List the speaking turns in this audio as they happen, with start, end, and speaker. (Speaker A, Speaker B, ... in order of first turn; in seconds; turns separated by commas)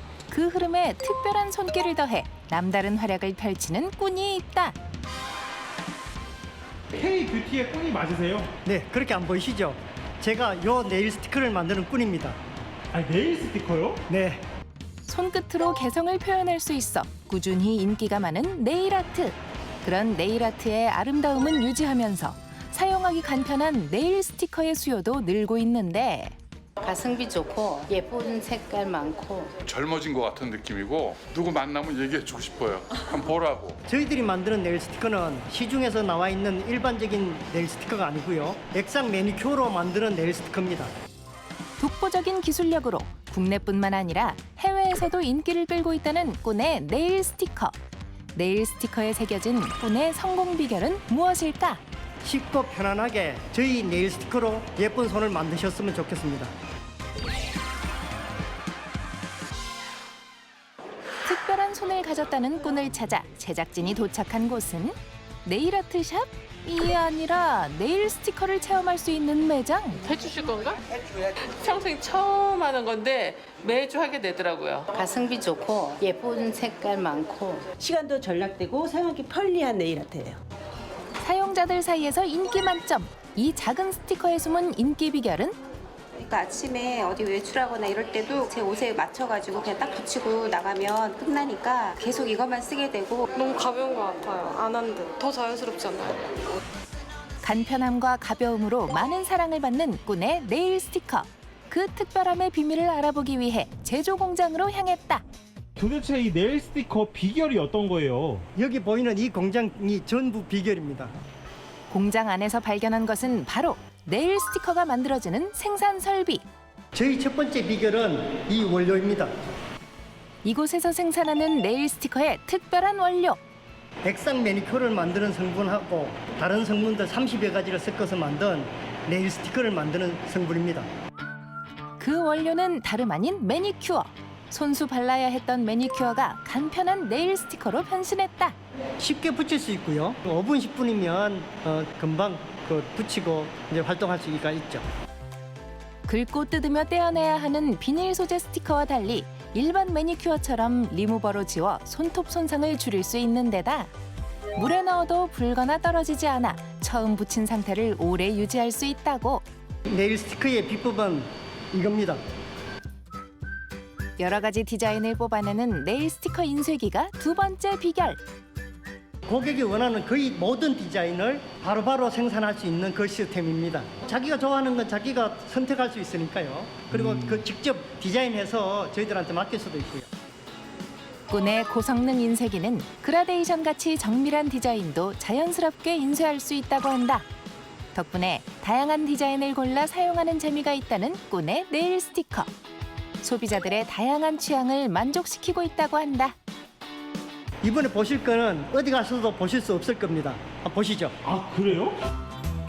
Speaker A: 0.3-4.8, Speaker B: 6.9-8.5, Speaker C: 8.7-12.4, Speaker B: 12.9-14.0, Speaker C: 14.1-14.4, Speaker A: 15.1-26.4, Speaker D: 26.8-29.5, Speaker E: 29.6-33.8, Speaker C: 33.9-40.9, Speaker A: 41.8-47.8, Speaker A: 48.4-51.8, Speaker C: 52.2-56.5, Speaker A: 61.2-70.0, Speaker F: 70.0-70.8, Speaker F: 71.5-74.9, Speaker D: 75.0-77.6, Speaker G: 77.8-80.4, Speaker A: 81.2-85.5, Speaker H: 86.2-93.3, Speaker I: 93.3-96.3, Speaker A: 97.4-105.2, Speaker B: 105.8-108.5, Speaker C: 108.5-111.2, Speaker A: 111.9-116.4, Speaker C: 116.9-119.3, Speaker A: 120.4-123.4, Speaker C: 124.0-130.9, Speaker A: 132.0-138.6, Speaker C: 139.0-144.8, Speaker A: 146.1-153.9, Speaker A: 154.6-159.4, Speaker C: 159.9-162.2, Speaker A: 164.2-168.2, Speaker C: 169.3-180.1, Speaker B: 177.0-177.4, Speaker A: 181.3-187.3, Speaker A: 187.9-192.5, Speaker A: 193.2-196.4, Speaker C: 197.6-201.2, Speaker B: 201.2-202.0